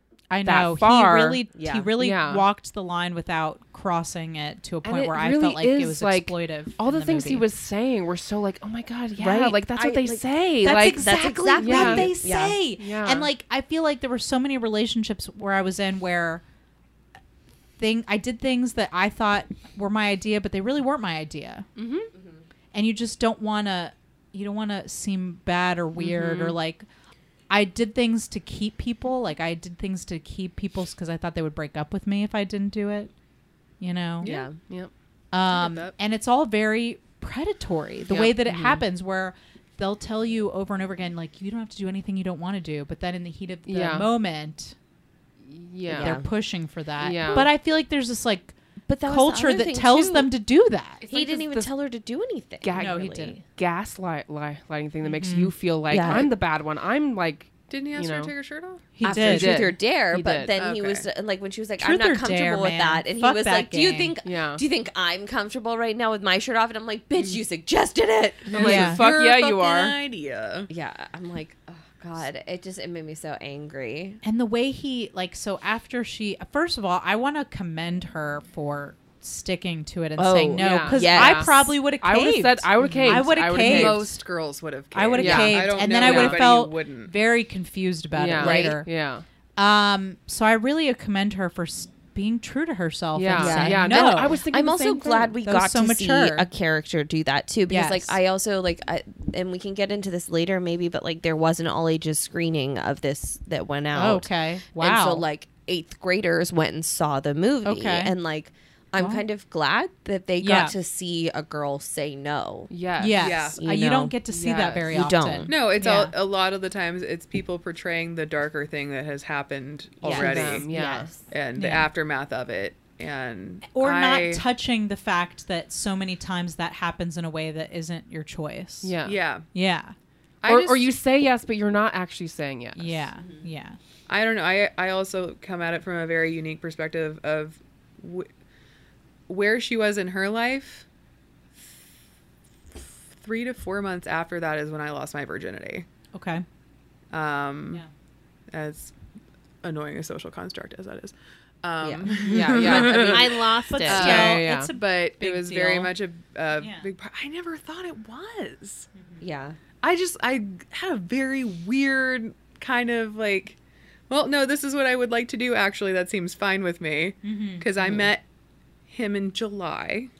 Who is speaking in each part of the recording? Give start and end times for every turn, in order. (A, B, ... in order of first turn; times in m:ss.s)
0:00.3-0:07.4 A
0:00.4-0:01.4 B
0:01.5-0:01.9 C
0:02.0-0:02.4 B
0:04.8-0:12.1 B
0:09.2-0:09.6 A
0:09.3-0:12.6 C
0:10.6-0:16.4 A
0:12.8-0:13.3 B
0:17.8-0:21.7 A
0:21.8-0:22.1 B
0:22.1-0:22.4 C
0:22.7-0:26.8 A
0:26.0-0:26.5 C
0:27.5-0:33.1 A
0:33.8-0:34.3 A
0:34.2-0:34.6 C
0:34.2-0:34.9 B
0:35.3-0:44.8 A
0:35.5-0:35.9 D
0:38.1-0:38.4 B
0:38.4-0:38.8 C
0:43.7-0:44.1 B
0:45.4-0:46.2 B
0:45.9-0:46.3 C
0:46.0-0:51.0 A
0:47.0-0:47.5 B
0:48.8-0:50.3 C
0:51.0-0:51.8 B
0:51.1-0:53.1 C
0:52.6-0:58.3 B
0:52.8-0:53.4 A
0:55.1-0:55.5 A
0:55.9-0:56.3 C
0:57.7-0:58.9 D
0:59.0-0:59.7 A
0:59.0-1:00.5 B
0:59.0-1:08.7 C
1:00.5-1:01.1 D
1:01.8-1:04.1 A
1:04.2-1:04.6 B
1:08.5-1:10.0 B
1:08.5-1:10.7 D
1:08.6-1:09.0 A
1:10.7-1:14.2 C
1:14.2-1:24.1 A
1:20.2-1:21.7 C
1:20.6-1:24.0 B
1:23.6-1:27.1 D
1:24.9-1:28.9 A
1:25.2-1:26.4 B
1:28.1-1:29.2 B
1:28.4-1:28.8 C
1:29.6-1:34.4 A
1:33.1-1:35.4 B
1:33.4-1:52.7 C
1:35.4-1:36.5 A
1:37.7-1:38.2 A
1:43.9-1:45.2 A
1:47.6-1:48.1 A
1:49.0-1:49.2 A
1:50.4-1:50.8 A
1:52.7-1:53.5 B
1:53.0-1:56.1 A
1:53.2-1:53.6 D
1:53.6-1:54.2 C
1:54.3-1:54.9 B
1:54.9-1:55.5 C
1:55.5-2:00.7 D
2:00.0-2:01.2 C
2:00.1-2:01.1 B
2:01.3-2:04.4 D
2:01.6-2:01.9 A
2:03.7-2:08.9 A
2:08.8-2:09.2 B
2:09.0-2:09.5 D
2:09.5-2:09.9 A
2:10.4-2:10.9 D
2:10.4-2:13.1 B
2:12.8-2:13.8 A
2:14.1-2:18.3 D
2:19.3-2:20.8 D
2:23.2-2:25.9 D
2:26.1-2:26.4 A
2:27.1-2:27.8 D
2:28.5-2:28.9 D
2:29.6-2:38.9 D
2:31.8-2:34.3 C
2:32.3-2:34.7 B
2:33.7-2:35.9 A
2:36.6-2:36.9 A
2:39.2-2:39.6 C
2:39.8-2:43.6 D
2:44.1-2:48.2 D
2:47.2-2:47.7 A
2:47.8-2:48.1 C
2:48.9-2:50.1 D